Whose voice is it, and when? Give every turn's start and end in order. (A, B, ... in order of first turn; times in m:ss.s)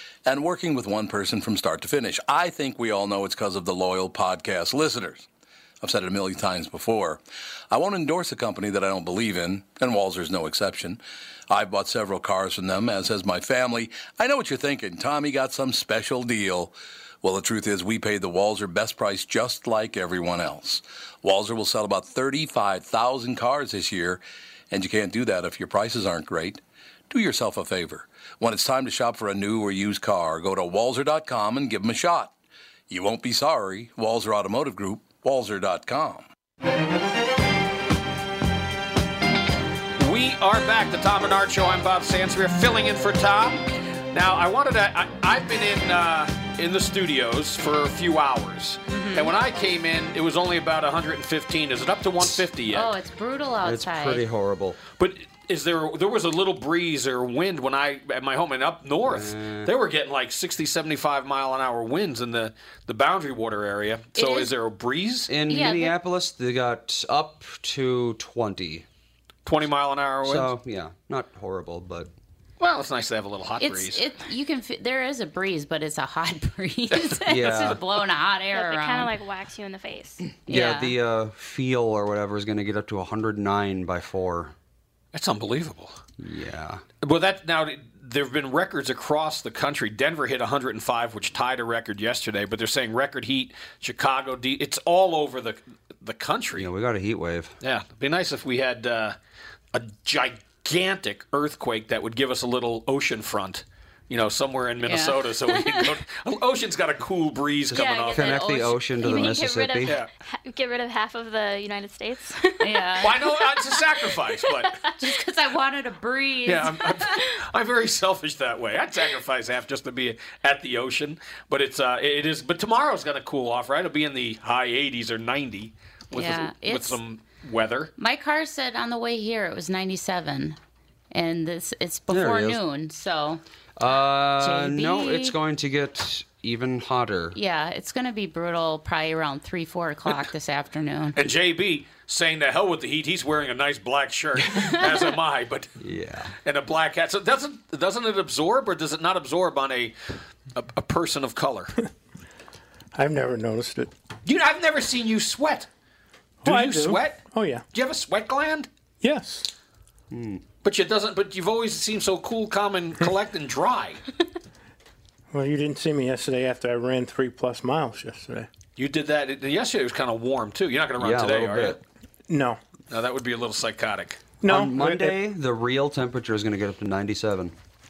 0:00.3-0:05.3 A
0:05.8-0:32.3 A
0:32.9-0:36.3 A
0:40.0-0:52.9 B
0:48.9-0:49.3 C
0:52.7-0:54.2 C
0:53.6-0:54.8 D
0:55.0-1:05.3 B
0:59.0-0:59.7 D
1:04.2-1:04.5 C
1:05.3-1:08.8 D
1:05.5-1:06.0 C
1:09.5-1:10.5 B
1:10.2-1:12.1 D
1:12.6-1:14.0 B
1:13.6-1:19.1 C
1:17.3-1:17.8 D
1:17.3-1:17.8 B
1:18.5-1:20.2 E
1:20.5-1:21.0 C
1:20.5-1:24.5 D
1:25.1-1:26.0 B
1:26.2-1:26.8 D
1:27.0-1:36.7 B
1:36.6-1:37.6 D
1:37.6-1:39.2 B
1:39.7-1:48.4 B
1:44.8-1:45.9 C
1:47.7-1:50.0 D
1:47.7-1:54.9 E
1:48.2-1:48.8 C
1:52.6-1:53.2 C
1:53.0-1:54.8 B
1:55.0-1:57.2 C
1:56.5-2:07.9 B
2:06.1-2:07.0 C
2:08.0-2:10.6 C
2:11.1-2:13.4 C
2:12.1-2:12.6 D
2:13.8-2:17.4 D
2:14.4-2:15.4 C
2:17.3-2:21.2 C
2:21.2-2:25.8 B
2:25.8-2:26.4 D
2:26.4-2:30.0 B
2:30.5-2:31.8 B
2:32.9-2:33.9 F
2:34.3-2:35.7 B
2:36.4-2:37.6 F
2:36.4-2:37.2 B
2:37.7-2:38.7 B
2:39.0-2:39.5 F
2:40.1-2:40.4 D
2:40.6-2:44.0 B
2:45.3-2:48.5 F
2:48.8-2:51.8 B
2:51.0-2:51.8 D
2:52.3-2:52.6 F
2:52.9-2:54.2 B
2:54.4-2:55.2 F
2:54.4-2:57.5 D